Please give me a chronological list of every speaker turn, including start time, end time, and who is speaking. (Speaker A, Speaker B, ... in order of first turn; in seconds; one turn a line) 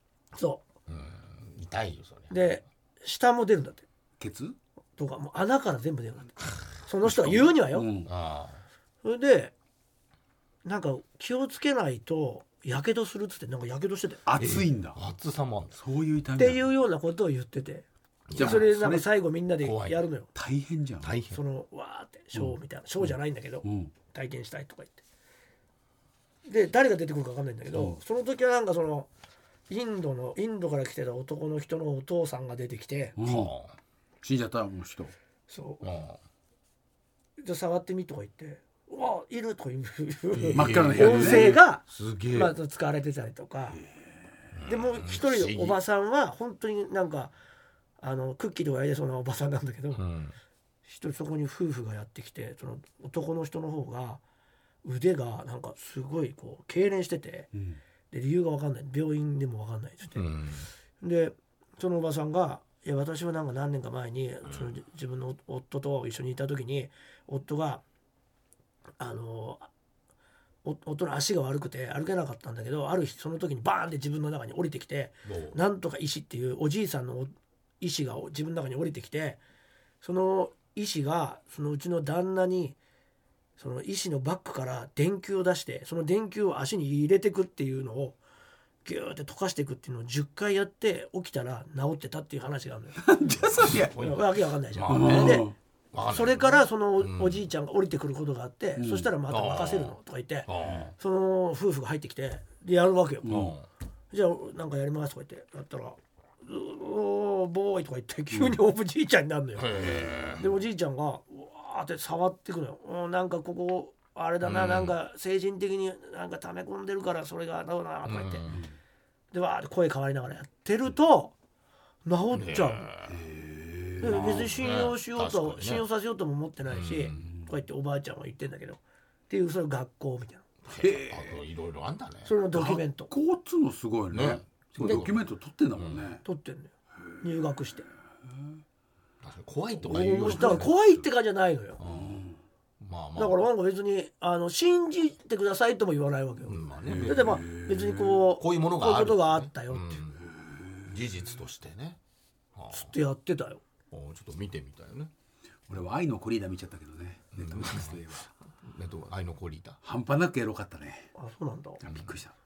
Speaker A: 0.3-0.7
Speaker B: 0.9-2.5
Speaker A: 2.3-3.9
Speaker C: 4.2-4.6
Speaker A: 5.0-7.9
Speaker C: 7.2-8.1
Speaker B: 8.1-8.6
Speaker A: 9.0-9.5
Speaker A: 10.7-14.2
Speaker C: 14.2-15.0
Speaker B: 14.4-15.8
Speaker C: 15.7-16.7
Speaker A: 16.4-20.3
Speaker B: 18.3-18.7
Speaker C: 18.4-19.1
Speaker B: 19.6-20.0
Speaker C: 20.4-21.1
Speaker B: 21.0-21.4
Speaker A: 21.3-25.0
Speaker C: 22.3-23.9
Speaker A: 26.4-29.1
Speaker C: 27.7-28.0
Speaker A: 29.7-33.2
Speaker C: 33.2-33.5
Speaker B: 33.2-33.7
Speaker C: 34.2-35.1
Speaker A: 35.5-35.9
Speaker B: 35.8-36.2
Speaker A: 37.4-43.8
Speaker B: 40.4-42.5
Speaker C: 40.5-41.6
Speaker B: 44.5-45.8
Speaker A: 44.7-47.3
Speaker A: 48.0-50.0
Speaker B: 50.0-50.4
Speaker A: 50.9-54.2
Speaker A: 54.8-57.5
Speaker C: 57.5-57.8
Speaker A: 58.1-60.2
Speaker B: 60.1-60.7
Speaker A: 61.0-67.8
Speaker A: 69.0-69.7
Speaker A: 70.6-79.4
Speaker B: 75.3-75.6
Speaker A: 80.0-82.8
Speaker A: 83.6-88.2
Speaker A: 88.8-93.0
Speaker C: 93.0-94.1
Speaker B: 93.6-97.4
Speaker A: 94.0-95.5
Speaker C: 94.9-95.5
Speaker A: 96.1-103.4
Speaker C: 98.8-99.1
Speaker B: 99.3-100.0
Speaker B: 100.5-100.9
Speaker C: 103.2-103.5
Speaker B: 103.3-103.7
Speaker A: 104.1-118.5
Speaker C: 108.3-108.6
Speaker B: 109.6-110.5
Speaker C: 109.8-110.3
Speaker B: 114.4-115.0
Speaker B: 118.0-118.6
Speaker C: 118.5-118.8
Speaker A: 119.3-121.3
Speaker A: 122.0-122.9
Speaker B: 122.3-123.2
Speaker C: 123.1-124.5
Speaker A: 124.0-130.4
Speaker B: 124.0-125.8
Speaker B: 126.7-127.3
Speaker C: 127.2-127.5
Speaker B: 130.7-132.3
Speaker C: 130.8-131.4
Speaker A: 132.2-133.1
Speaker C: 132.5-136.2
Speaker B: 134.1-135.2
Speaker B: 135.8-136.1
Speaker A: 136.2-137.9
Speaker B: 139.2-140.8
Speaker A: 139.8-141.8
Speaker C: 139.9-140.8
Speaker B: 141.8-142.2
Speaker C: 141.8-142.4
Speaker B: 142.8-143.4
Speaker A: 143.2-150.0
Speaker B: 146.5-147.5
Speaker C: 146.8-148.2
Speaker B: 148.4-150.2
Speaker C: 150.3-151.0
Speaker B: 150.8-152.0
Speaker B: 152.6-152.9
Speaker A: 152.7-153.6
Speaker B: 153.9-155.1
Speaker C: 155.7-158.3
Speaker B: 157.3-158.0
Speaker B: 158.7-159.8
Speaker C: 159.8-161.1
Speaker A: 161.2-161.8
Speaker C: 161.8-162.3
Speaker B: 161.8-162.1